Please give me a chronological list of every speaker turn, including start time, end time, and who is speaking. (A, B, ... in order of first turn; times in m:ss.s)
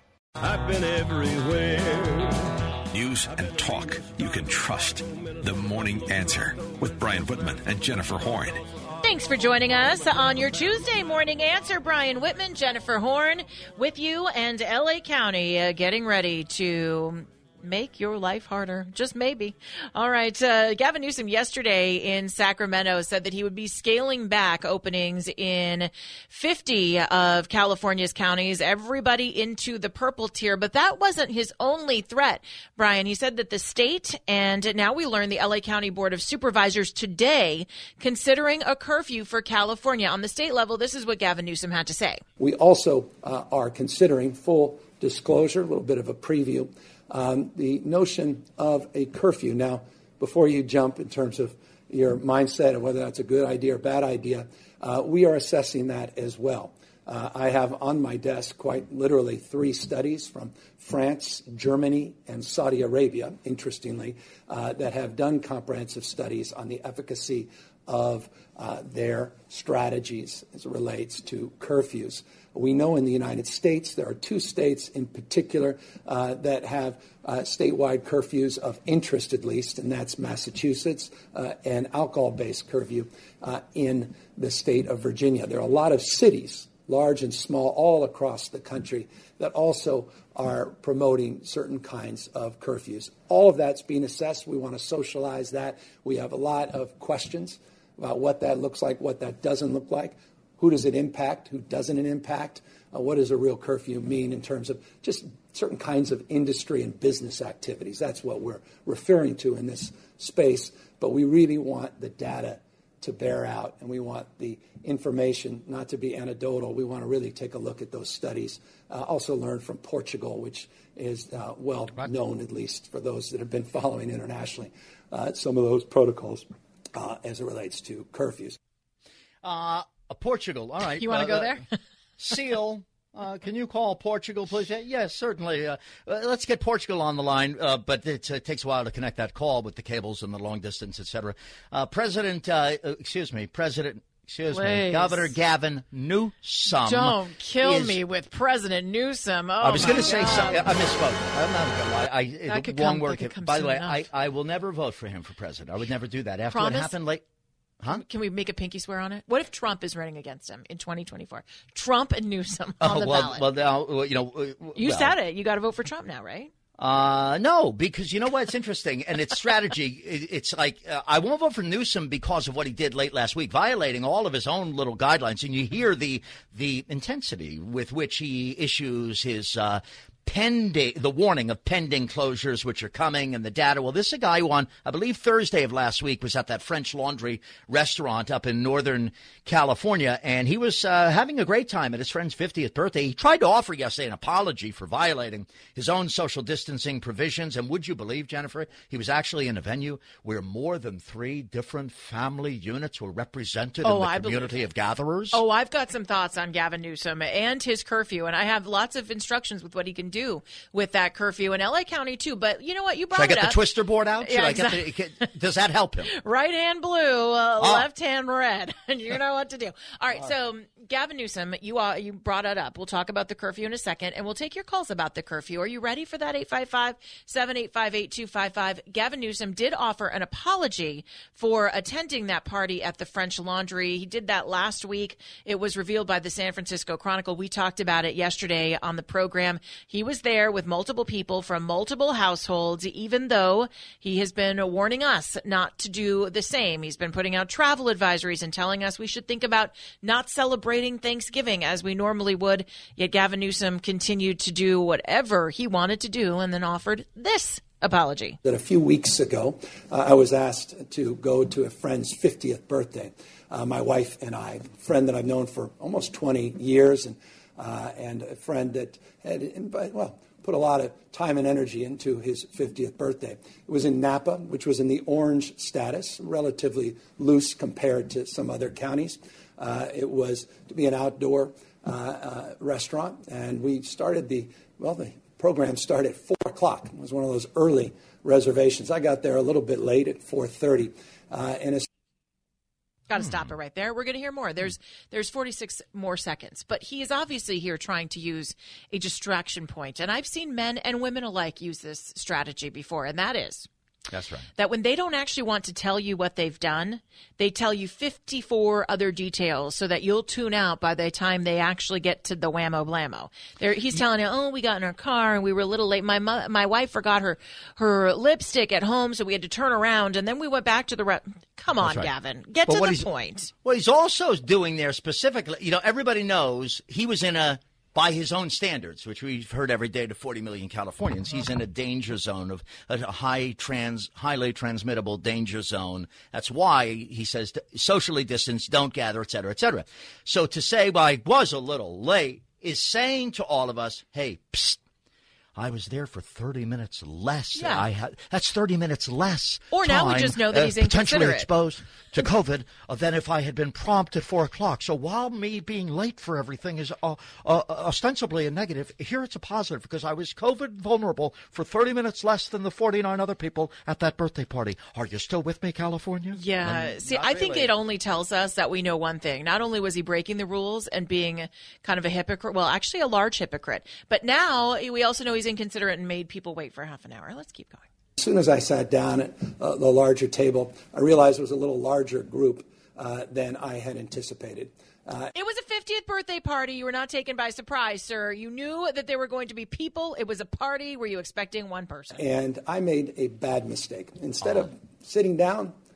0:00.4-0:02.5 A
0:02.9-0:08.6 B
0:09.0-0:42.2 C
0:42.4-2:08.6 D
2:09.4-2:11.6 E
2:10.9-2:11.7 C
2:12.2-2:28.0 E
2:24.5-2:25.3 C
2:26.8-2:30.7 C
2:29.6-2:37.2 E
2:32.5-2:34.0 C
2:36.5-2:36.9 C
2:37.9-2:43.4 C
2:42.8-2:45.2 E
2:44.8-2:46.5 C
2:46.8-3:25.4 E
3:23.8-3:24.6 C
3:25.3-3:33.6 C
3:33.1-3:36.1 E
3:34.2-3:35.3 C
3:36.1-4:18.4 C
3:37.6-3:37.9 E
4:18.4-4:51.8 D
4:53.1-5:03.7 C
5:04.1-5:04.5 E
5:04.6-5:23.5 C
5:21.8-5:22.1 E
5:22.7-5:23.0 E
5:23.6-5:44.8 E
5:45.6-6:07.7 E
5:47.5-5:47.8 C
5:49.7-5:51.5 C
6:06.3-6:17.8 C
6:18.2-6:25.3 D
6:25.3-6:32.2 C
6:32.2-6:35.7 D